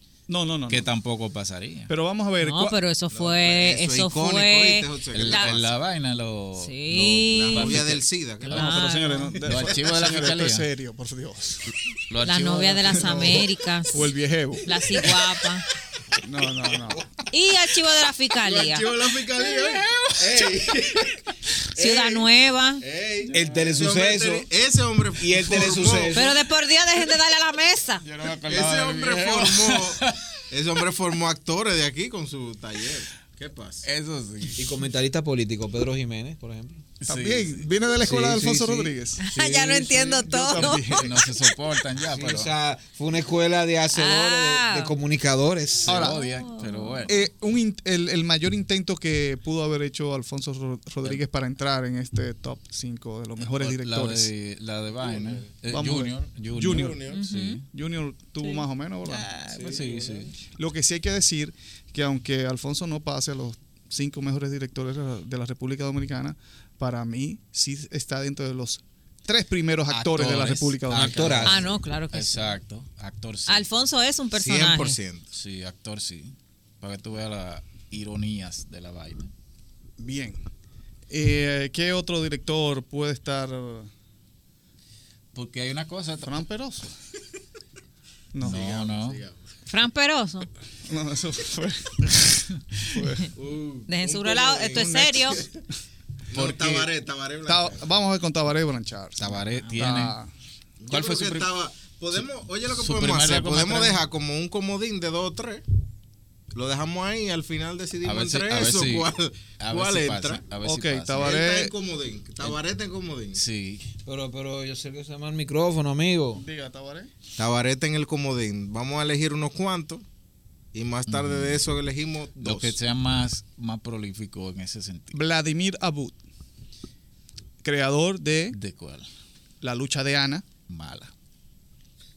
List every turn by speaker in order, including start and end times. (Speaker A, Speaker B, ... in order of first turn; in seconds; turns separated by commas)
Speaker A: 0.3-0.9, Speaker B: 0.7-1.9, Speaker A: 1.9-2.8, Speaker C: 2.4-5.5, Speaker D: 3.1-5.7, Speaker B: 5.1-8.7, Speaker C: 6.6-7.9, Speaker D: 7.3-8.8, Speaker C: 8.5-9.4, Speaker A: 8.5-11.7, Speaker B: 9.4-10.7, Speaker B: 12.1-13.5, Speaker C: 12.2-14.1, Speaker A: 13.1-13.3, Speaker A: 13.9-14.7, Speaker C: 14.7-15.7, Speaker A: 16.2-17.1, Speaker D: 16.7-17.0, Speaker C: 17.3-19.0, Speaker D: 18.4-21.2, Speaker B: 19.4-20.6, Speaker C: 21.8-22.8, Speaker D: 21.8-22.2, Speaker D: 22.8-26.2, Speaker E: 23.3-24.5, Speaker E: 25.2-26.4, Speaker A: 25.4-26.1, Speaker C: 26.1-28.0, Speaker B: 28.0-30.2, Speaker D: 28.5-33.9, Speaker B: 33.8-34.7, Speaker E: 34.6-36.8, Speaker B: 37.0-37.6, Speaker A: 37.1-39.3, Speaker E: 38.0-40.3, Speaker C: 39.2-41.3, Speaker A: 40.2-41.1, Speaker B: 41.0-42.5, Speaker E: 42.1-46.0, Speaker C: 43.9-45.0, Speaker B: 45.8-47.2, Speaker A: 45.9-46.2, Speaker C: 46.0-47.1, Speaker A: 47.1-54.3, Speaker B: 53.4-57.6, Speaker D: 55.0-55.5, Speaker A: 55.7-57.0, Speaker D: 56.6-57.2, Speaker C: 57.1-57.6, Speaker A: 57.7-59.3, Speaker B: 59.0-60.3, Speaker D: 59.5-60.3, Speaker A: 60.5-71.7, Speaker B: 69.9-73.7, Speaker E: 70.9-71.7, Speaker C: 71.5-72.5, Speaker C: 73.5-75.0, Speaker D: 74.3-75.3, Speaker B: 75.3-79.3, Speaker A: 80.0-80.4, Speaker A: 81.1-83.9, Speaker B: 85.3-86.4, Speaker A: 86.2-87.0, Speaker A: 88.3-88.6, Speaker B: 88.4-89.2, Speaker D: 88.4-89.4, Speaker C: 89.7-90.5, Speaker A: 90.8-93.3, Speaker B: 92.7-93.0, Speaker D: 93.3-95.5, Speaker C: 93.9-95.5, Speaker A: 94.8-95.1, Speaker D: 96.3-97.9, Speaker A: 96.3-96.9, Speaker A: 97.4-100.3, Speaker B: 99.2-100.2, Speaker C: 99.6-99.9, Speaker D: 100.8-105.6, Speaker B: 100.9-101.6, Speaker B: 102.1-104.0, Speaker D: 106.5-110.5, Speaker B: 108.0-111.4, Speaker A: 110.6-111.8, Speaker D: 111.2-113.4, Speaker B: 113.3-113.9, Speaker E: 114.0-116.5, Speaker A: 116.4-117.1, Speaker D: 117.4-120.0, Speaker D: 120.7-122.8, Speaker B: 121.1-121.7, Speaker B: 122.4-125.2, Speaker A: 125.1-126.2, Speaker A: 127.6-128.6, Speaker B: 128.5-129.1, Speaker A: 129.6-130.5, Speaker B: 130.7-131.1